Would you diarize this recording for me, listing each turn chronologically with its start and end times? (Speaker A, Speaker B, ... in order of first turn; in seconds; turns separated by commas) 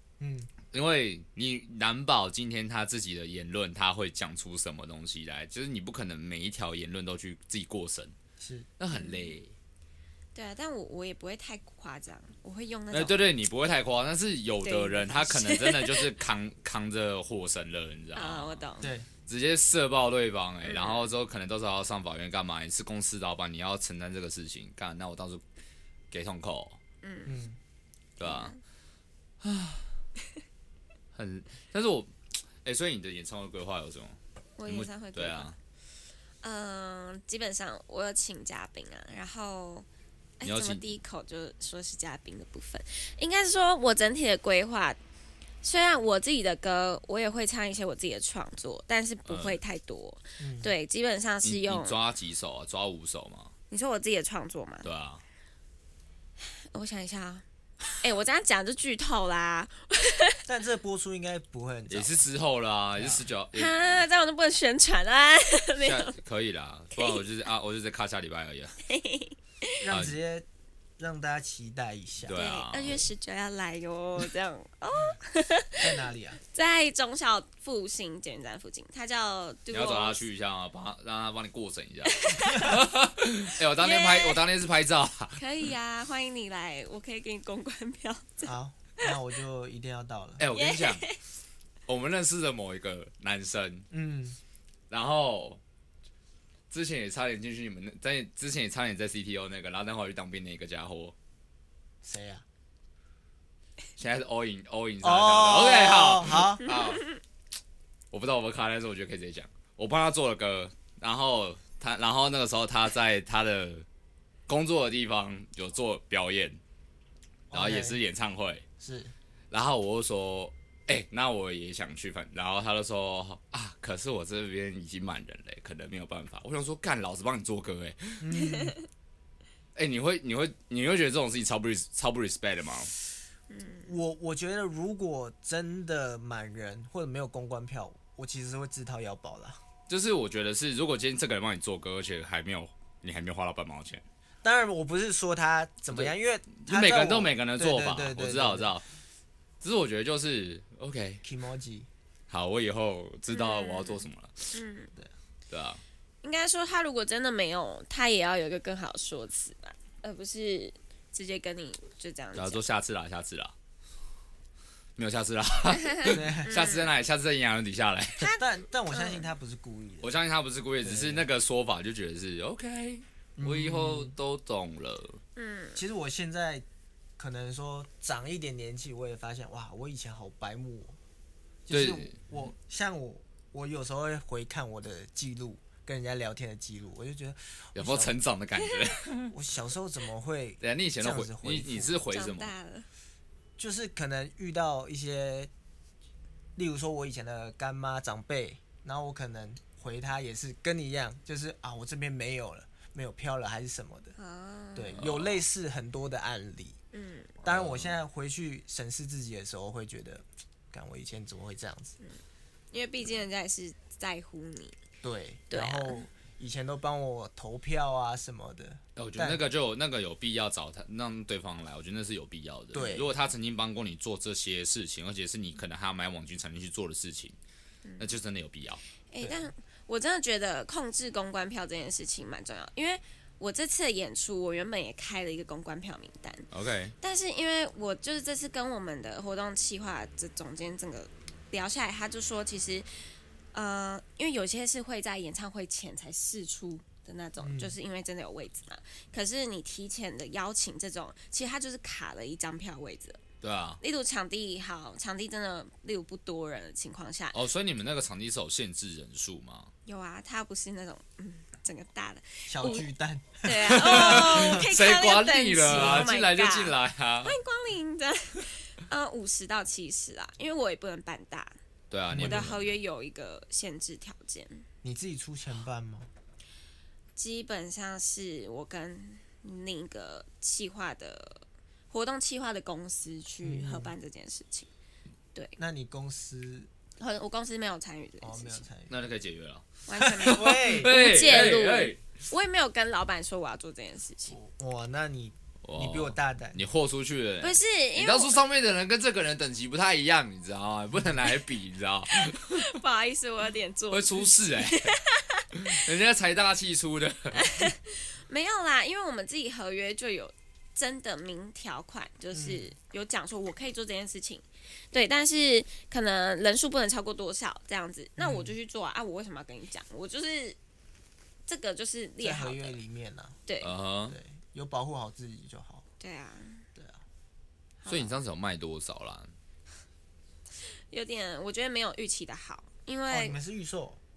Speaker A: 0.2-0.5, Speaker B: 0.7-8.1, Speaker A: 8.4-8.7, Speaker B: 8.8-9.5, Speaker C: 8.9-9.3, Speaker C: 10.3-13.2, Speaker B: 12.9-18.6, Speaker C: 14.6-16.1, Speaker C: 18.1-18.9, Speaker A: 18.8-19.1, Speaker B: 19.2-25.4, Speaker C: 20.6-21.1, Speaker B: 26.1-26.8, Speaker C: 27.0-27.4, Speaker A: 27.3-27.6, Speaker B: 28.2-28.6, Speaker C: 28.2-28.6, Speaker B: 29.4-29.9, Speaker B: 31.1-35.5, Speaker C: 34.6-35.5, Speaker C: 36.4-39.9, Speaker C: 40.4-45.0, Speaker B: 40.4-40.8, Speaker C: 45.6-52.0, Speaker B: 49.2-49.6, Speaker A: 50.4-50.7, Speaker B: 51.4-53.5, Speaker C: 53.7-54.9, Speaker B: 54.8-55.2, Speaker C: 56.4-60.4, Speaker A: 60.5-62.1, Speaker B: 61.9-64.0, Speaker A: 63.0-63.2, Speaker C: 63.5-66.1, Speaker B: 65.8-68.8, Speaker C: 67.0-67.2, Speaker C: 68.8-69.8, Speaker A: 69.8-70.5, Speaker B: 69.9-70.2, Speaker A: 71.0-72.4, Speaker B: 72.2-73.1, Speaker C: 72.3-76.0, Speaker A: 75.8-76.4, Speaker C: 76.5-80.2, Speaker B: 79.7-85.4, Speaker C: 82.1-82.8, Speaker C: 83.6-84.4, Speaker C: 85.4-89.2, Speaker A: 88.4-90.4, Speaker B: 90.4-91.0, Speaker C: 90.5-91.2, Speaker B: 91.9-93.9, Speaker A: 93.9-94.4, Speaker B: 94.9-95.6, Speaker B: 96.7-101.1, Speaker A: 102.0-102.4, Speaker B: 104.0-107.0, Speaker A: 105.0-106.7, Speaker B: 108.1-113.8, Speaker B: 114.5-116.6, Speaker A: 117.5-118.0, Speaker B: 117.5-118.6, Speaker A: 118.8-119.1, Speaker B: 119.5-128.2, Speaker A: 128.2-128.8, Speaker C: 128.4-128.7, Speaker B: 129.7-132.9, Speaker C: 133.5-133.9, Speaker A: 133.8-139.6, Speaker B: 139.9-144.0, Speaker A: 144.4-148.7, Speaker B: 145.9-148.8, Speaker B: 149.6-151.2, Speaker A: 151.2-151.9, Speaker B: 152.3-154.6, Speaker C: 153.3-154.9, Speaker B: 155.5-155.8, Speaker C: 156.2-162.6, Speaker B: 162.3-163.5, Speaker B: 164.9-168.3, Speaker C: 165.8-166.9, Speaker A: 166.1-166.6, Speaker C: 168.2-169.3, Speaker A: 168.2-170.2, Speaker B: 170.0-175.2, Speaker A: 170.8-171.3, Speaker A: 173.4-174.1, Speaker C: 175.3-175.8, Speaker A: 175.7-176.6, Speaker A: 177.2-181.0, Speaker A: 181.7-188.1, Speaker B: 181.7-182.1, Speaker B: 187.7-189.3, Speaker C: 188.6-188.9, Speaker A: 189.3-192.0, Speaker B: 190.6-192.5, Speaker C: 192.1-192.9, Speaker A: 193.6-195.5, Speaker A: 196.6-204.2, Speaker C: 204.2-204.9, Speaker A: 204.7-206.8, Speaker B: 204.9-205.4, Speaker C: 206.9-207.3, Speaker A: 207.4-212.0, Speaker B: 207.4-207.9, Speaker C: 212.7-214.8, Speaker A: 215.0-219.4, Speaker C: 215.5-216.0, Speaker B: 218.9-227.3, Speaker A: 222.7-223.1, Speaker C: 227.8-228.1, Speaker B: 228.0-228.8, Speaker C: 229.1-236.5, Speaker A: 229.2-229.5, Speaker B: 236.5-236.9, Speaker C: 237.0-243.0, Speaker C: 243.5-253.2, Speaker A: 247.4-247.8, Speaker B: 253.4-253.8, Speaker C: 253.8-257.4, Speaker B: 257.3-259.7, Speaker C: 259.9-262.9, Speaker A: 262.5-264.6, Speaker C: 263.4-271.6, Speaker B: 263.6-267.4, Speaker A: 265.7-266.1, Speaker B: 271.9-272.8, Speaker A: 272.1-272.5, Speaker C: 272.1-274.6, Speaker A: 274.8-276.1, Speaker C: 277.1-284.7, Speaker A: 283.4-283.9, Speaker A: 285.6-286.7, Speaker C: 287.0-288.6, Speaker A: 288.2-288.9, Speaker B: 288.9-289.7, Speaker C: 289.9-294.4, Speaker A: 290.0-290.9, Speaker B: 290.2-292.0, Speaker A: 294.3-296.6, Speaker B: 295.6-302.7, Speaker C: 297.4-298.4, Speaker C: 302.1-305.8, Speaker B: 303.9-305.0, Speaker B: 305.5-307.5, Speaker C: 307.3-320.6, Speaker A: 312.3-312.6, Speaker A: 318.2-318.5, Speaker C: 321.5-322.8, Speaker A: 322.2-323.4, Speaker C: 323.5-323.7, Speaker B: 323.6-324.1, Speaker A: 324.1-325.8, Speaker C: 326.0-326.6, Speaker A: 326.8-327.0, Speaker C: 327.8-328.1, Speaker B: 327.9-329.3, Speaker C: 330.9-333.4, Speaker A: 333.1-334.0